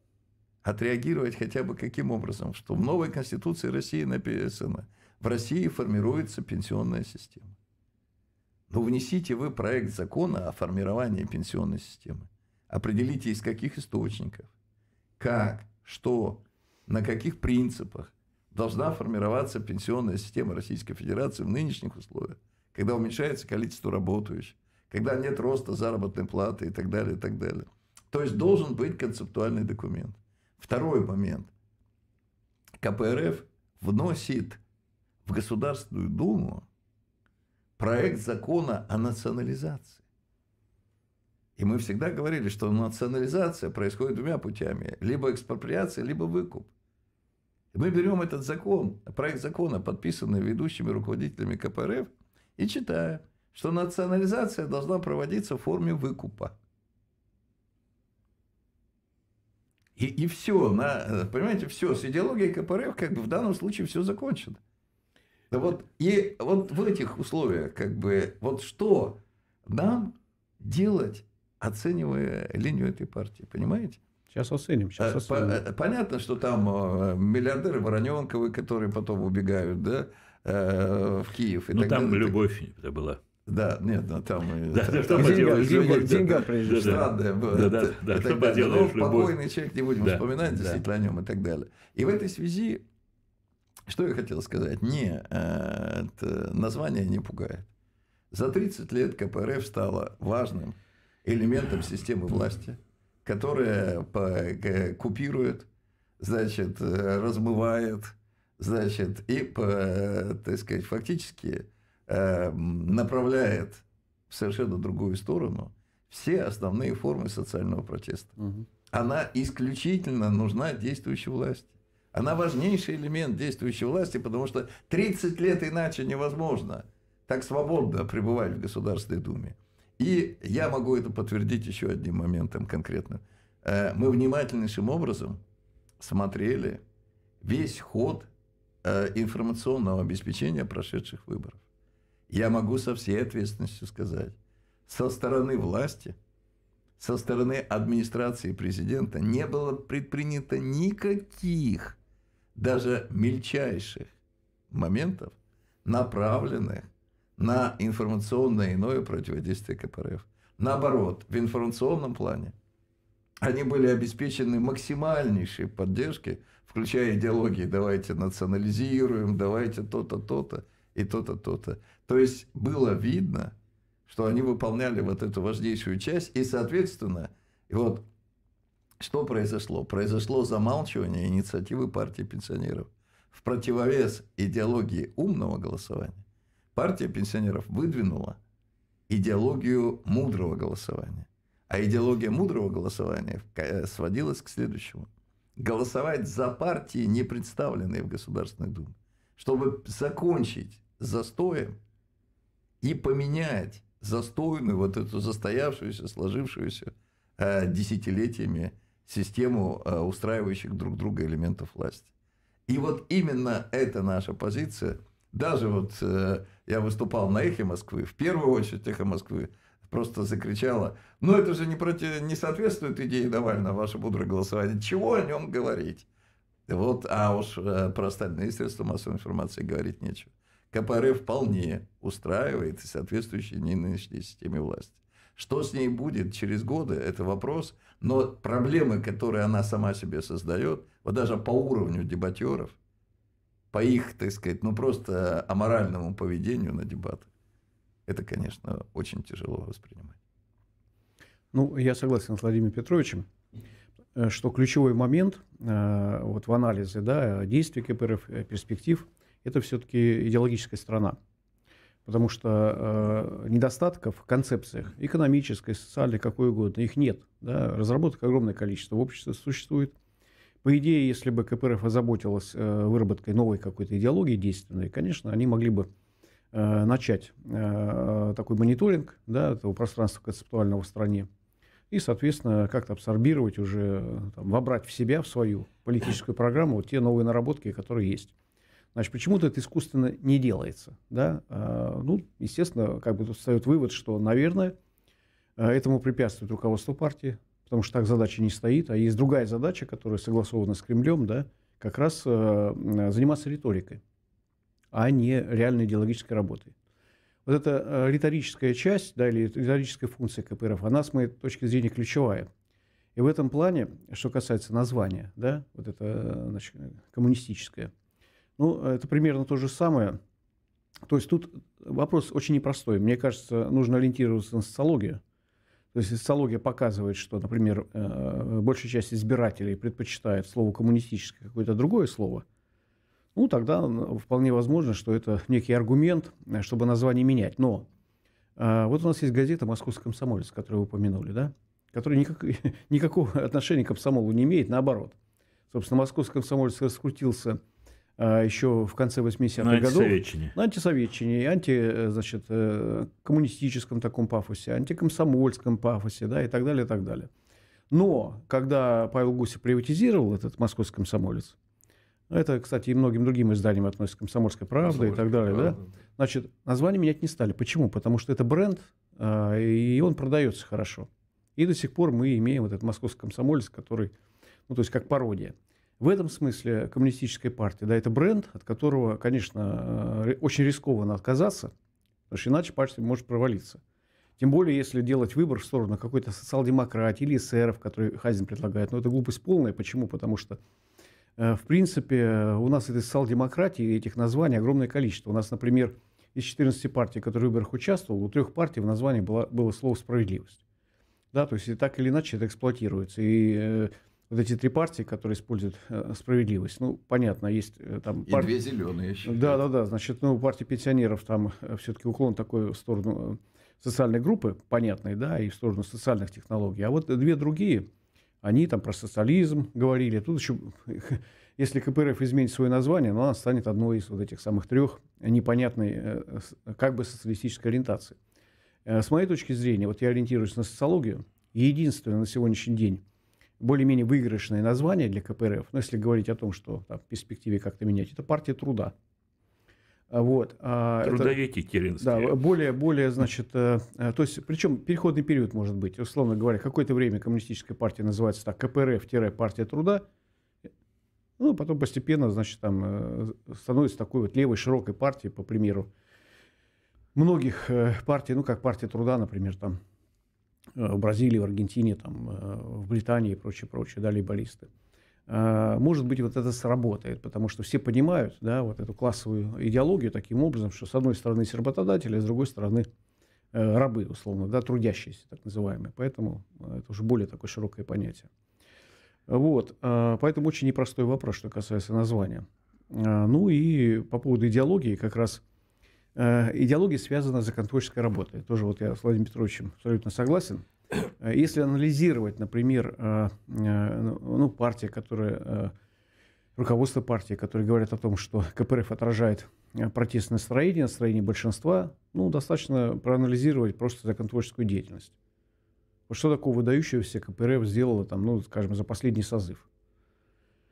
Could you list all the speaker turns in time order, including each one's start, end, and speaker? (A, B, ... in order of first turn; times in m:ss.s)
0:00.6-0:07.6 A
0:08.7-0:14.5 A
0:15.2-0:31.5 A
0:32.8-0:34.6 A
0:35.2-0:36.7 A
0:37.8-0:40.0 A
0:41.6-0:46.7 A
0:47.7-0:56.6 A
1:00.0-1:04.6 A
1:05.5-1:14.0 A
1:14.3-1:15.6 B
1:15.0-1:22.4 A
1:21.7-1:23.2 C
1:23.5-1:32.8 A
1:24.7-1:29.4 C
1:25.1-1:27.1 B
1:30.0-1:30.8 C
1:33.9-1:37.7 A
1:38.3-1:45.7 A
1:46.2-1:58.3 A
1:58.4-1:58.7 B
1:58.9-2:15.4 A
2:16.0-2:16.8 A
2:17.4-2:18.3 A
2:18.8-2:21.6 A
2:22.3-2:26.2 A
2:27.0-2:32.0 A
2:32.6-2:34.1 A
2:34.7-2:42.6 A
2:43.4-2:53.6 A
2:54.1-2:58.0 A
2:59.0-3:06.2 A
3:06.8-3:08.4 A
3:09.1-3:21.8 A
3:22.8-3:32.1 A
3:32.7-3:46.1 A
3:46.7-4:02.8 A
4:03.7-4:07.3 A
4:08.1-4:10.2 A
4:11.5-4:13.3 B
4:14.2-4:21.2 B
4:22.0-4:30.0 B
4:30.6-4:35.9 B
4:36.5-4:41.3 B
4:41.9-4:48.3 B
4:49.0-4:54.8 B
4:55.6-5:04.0 B
5:04.9-5:06.7 B
5:07.5-5:12.5 B
5:13.2-5:17.9 B
5:18.6-5:20.2 B
5:21.1-5:25.2 B
5:25.9-5:32.4 B
5:33.4-5:37.9 B
5:38.6-5:45.2 B
5:45.7-5:47.6 B
5:48.2-5:57.3 B
5:49.6-5:50.5 C
5:57.9-6:01.6 B
6:02.3-6:14.1 B
6:04.8-6:05.8 A
6:14.7-6:21.7 B
6:22.3-6:23.8 B
6:24.4-6:30.6 B
6:31.4-6:40.6 B
6:41.3-6:48.5 B
6:48.3-6:49.6 A
6:49.2-6:57.9 B
6:58.4-7:08.2 B
7:08.9-7:13.0 B
7:13.6-7:18.9 B
7:20.1-7:21.4 B
7:21.0-7:22.4 C
7:22.0-7:30.0 B
7:31.4-7:35.9 B
7:37.2-7:39.8 B
7:40.8-7:44.7 B
7:45.3-7:52.9 B
7:53.5-7:58.3 B
7:59.3-8:05.4 B
8:06.2-8:10.7 B
8:11.2-8:15.7 B
8:16.6-8:25.1 B
8:26.1-8:29.6 B